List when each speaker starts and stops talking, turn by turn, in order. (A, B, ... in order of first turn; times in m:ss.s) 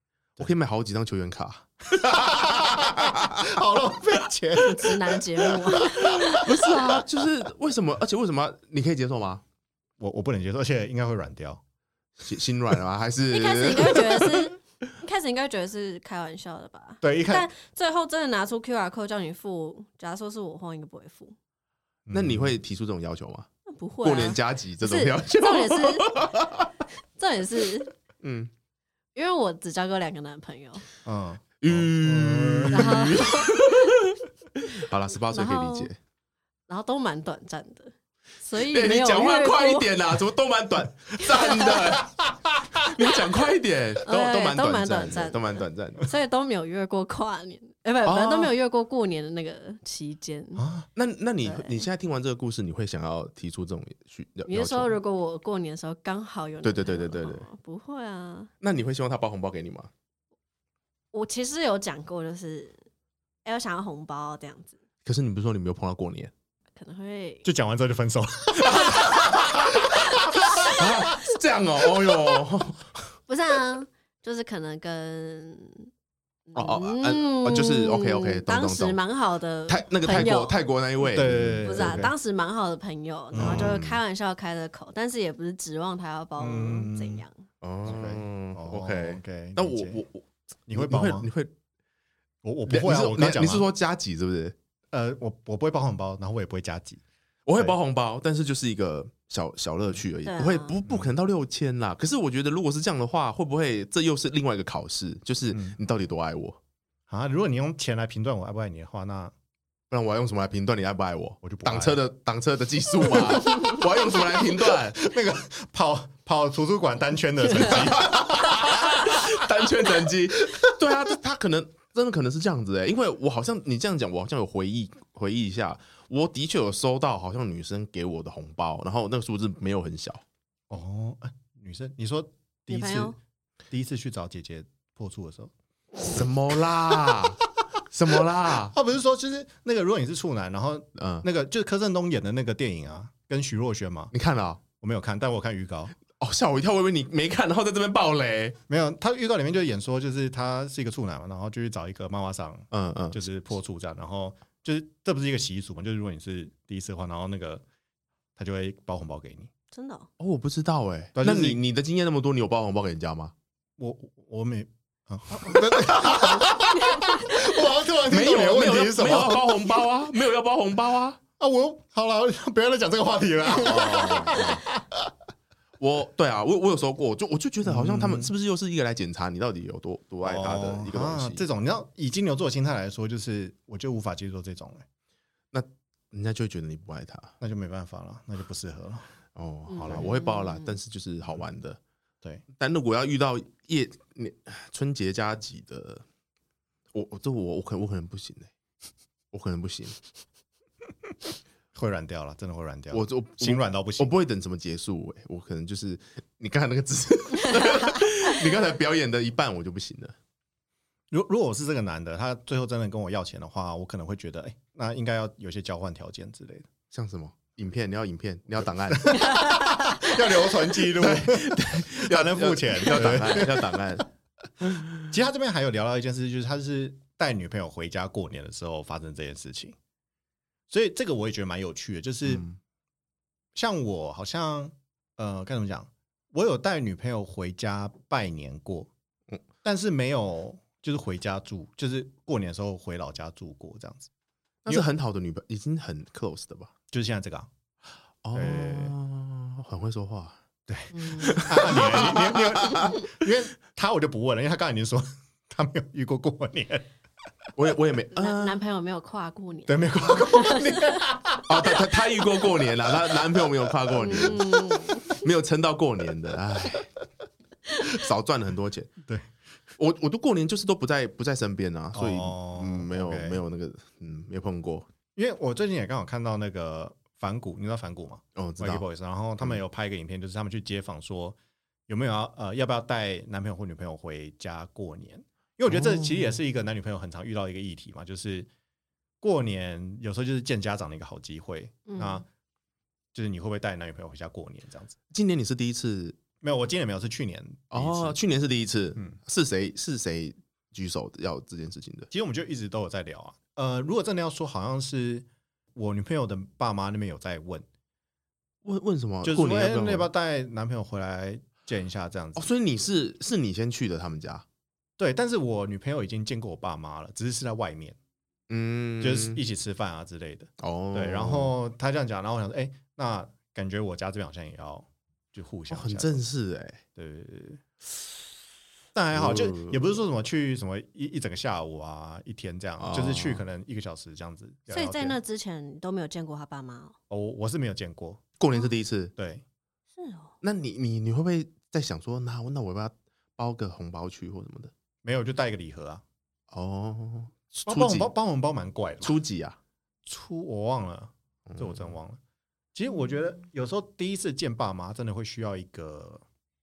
0:00.4-0:03.5 A
0:01.9-0:06.9 B
0:04.6-0:06.4 C
0:06.0-0:09.4 A
0:10.0-0:11.6 B
0:12.2-0:14.5 A
0:13.3-0:21.4 C
0:17.0-0:17.5 B
0:22.1-0:22.5 B
0:22.1-0:23.5 A
0:23.7-0:26.2 C
0:24.0-0:26.7 A
0:27.2-0:27.9 C
0:28.2-0:28.5 A
0:29.1-0:30.8 C
0:31.0-0:33.2 B
0:31.6-0:36.0 A
0:32.7-0:33.9 C
0:35.3-0:35.9 C
0:36.7-0:39.9 C
0:38.6-0:42.2 A
0:41.2-0:41.8 C
0:42.2-0:42.9 B
0:42.8-0:46.1 A
0:44.0-0:50.7 C
0:48.0-0:48.5 A
0:50.6-0:50.9 B
0:51.0-0:54.9 A
0:51.4-0:51.8 C
0:54.5-0:58.5 C
0:56.6-0:57.5 A
0:58.6-0:59.9 A
1:01.1-1:02.8 C
1:03.4-1:04.7 C
1:05.0-1:06.3 A
1:06.8-1:07.5 C
1:07.4-1:11.1 B
1:08.6-1:13.1 A
1:13.3-1:15.9 C
1:16.5-1:20.6 C
1:16.5-1:19.0 A
1:19.7-1:22.1 A
1:21.1-1:22.1 B
1:21.6-1:27.4 C
1:23.3-1:23.8 B
1:23.4-1:24.0 A
1:26.4-1:27.2 B
1:27.6-1:31.5 A
1:27.8-1:30.0 B
1:30.7-1:31.3 B
1:32.4-1:33.7 B
1:32.7-1:34.5 A
1:34.9-1:37.0 B
1:37.4-1:46.6 A
1:40.2-1:40.8 C
1:40.8-1:41.1 B
1:47.1-1:49.3 B
1:49.9-1:55.0 A
1:51.4-1:52.0 B
1:53.1-1:53.6 B
1:54.7-1:59.5 B
1:57.5-2:10.2 A
2:00.5-2:00.9 B
2:10.7-2:13.2 B
2:12.7-2:13.2 C
2:13.7-2:15.5 B
2:16.0-2:18.7 A
2:16.9-2:17.2 B
2:18.2-2:24.1 B
2:21.0-2:21.2 A
2:24.1-2:24.6 A
2:24.8-2:25.9 B
2:26.1-2:28.6 A
2:28.7-2:37.6 B
2:32.7-2:33.2 A
2:38.4-2:39.5 B
2:39.7-2:40.1 C
2:40.2-2:43.3 A
2:41.2-2:41.6 B
2:43.8-2:49.8 B
2:45.7-2:46.5 A
2:48.1-2:51.2 A
2:51.4-2:55.1 B
2:53.5-2:54.6 A
2:55.8-3:01.4 A
2:57.6-2:58.3 B
3:00.2-3:04.8 B
3:05.5-3:07.3 A
3:07.4-3:09.1 B
3:09.4-3:11.8 A
3:09.7-3:10.8 C
3:12.6-3:16.0 A
3:16.9-3:18.5 A
3:19.3-3:20.0 A
3:21.7-3:24.1 B
3:22.9-3:30.1 A
3:31.1-3:36.7 B
3:36.9-3:39.4 A
3:38.9-3:44.0 B
3:39.1-3:40.1 C
3:40.9-3:44.0 A
3:44.6-3:45.0 A
3:45.1-3:49.8 B
3:50.7-3:52.4 B
3:52.2-3:52.6 A
3:53.5-3:58.9 B
3:59.6-4:04.1 B
4:04.6-4:06.7 A
4:06.9-4:07.5 B
4:08.2-4:10.4 A
4:08.3-4:08.9 B
4:10.7-4:16.9 B
4:10.9-4:11.4 C
4:11.2-4:13.0 A
4:17.6-4:18.6 A
4:18.1-4:21.0 C
4:19.7-4:24.4 B
4:21.5-4:26.9 A
4:24.0-4:25.1 C
4:27.8-4:28.9 A
4:29.8-4:34.9 A
4:31.9-4:33.4 B
4:35.1-4:41.4 B
4:38.3-4:38.8 A
4:41.9-4:48.5 B
4:45.7-4:46.4 A
4:49.2-4:52.2 B
4:51.8-4:52.2 C
4:53.1-4:55.0 B
4:55.1-4:56.2 A
4:56.4-4:58.2 B
4:57.7-5:02.1 A
5:02.1-5:07.6 B
5:08.6-5:10.1 A
5:09.2-5:12.5 B
5:12.4-5:14.4 A
5:15.0-5:18.0 B
5:18.5-5:19.4 A
5:19.0-5:26.2 B
5:20.6-5:21.5 A
5:25.7-5:26.8 A
5:27.0-5:27.6 B
5:28.9-5:35.2 B
5:29.1-5:29.9 A
5:32.8-5:33.4 A
5:34.7-5:36.9 C
5:37.1-5:38.2 B
5:38.4-5:39.1 A
5:39.2-5:39.4 B
5:40.0-5:40.3 C
5:40.4-5:44.7 A
5:45.0-5:46.0 B
5:46.5-5:48.1 A
5:47.6-5:49.2 B
5:49.0-5:49.6 A
5:50.0-5:52.2 B
5:51.5-5:51.8 A
5:52.7-5:56.2 B